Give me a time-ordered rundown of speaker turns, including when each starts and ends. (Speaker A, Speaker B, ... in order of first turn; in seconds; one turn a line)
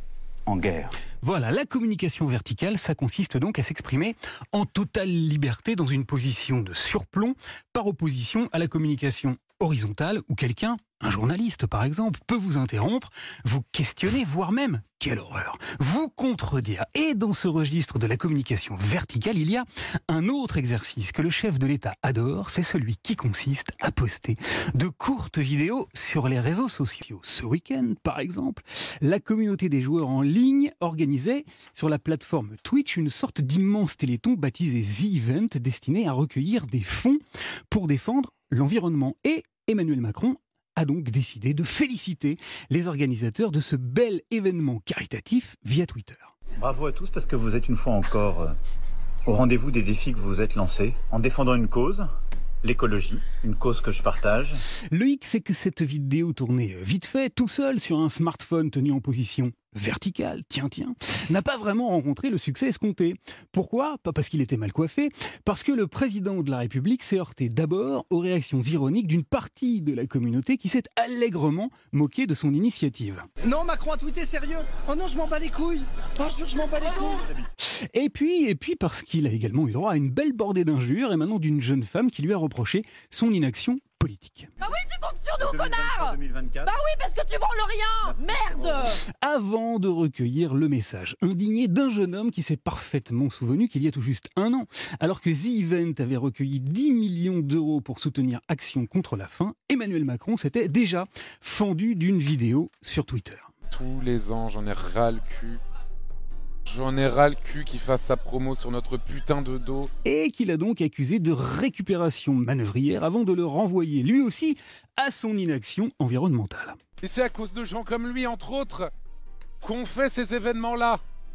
Speaker A: 0.5-0.9
Speaker B: 1.2-46.3
Speaker A: 46.6-48.5
Speaker A: 49.2-52.1
Speaker A: 52.6-54.5
Speaker B: 54.9-73.2
Speaker C: 73.4-77.2
Speaker A: 76.8-77.5
Speaker D: 76.8-77.1
Speaker B: 77.8-84.5
Speaker D: 84.6-89.0
Speaker A: 85.4-86.7
Speaker A: 88.0-88.9
Speaker B: 89.0-103.5
Speaker E: 103.7-105.6
Speaker E: 106.7-109.9
Speaker B: 110.0-116.8
Speaker E: 117.0-118.9
Speaker E: 119.6-121.0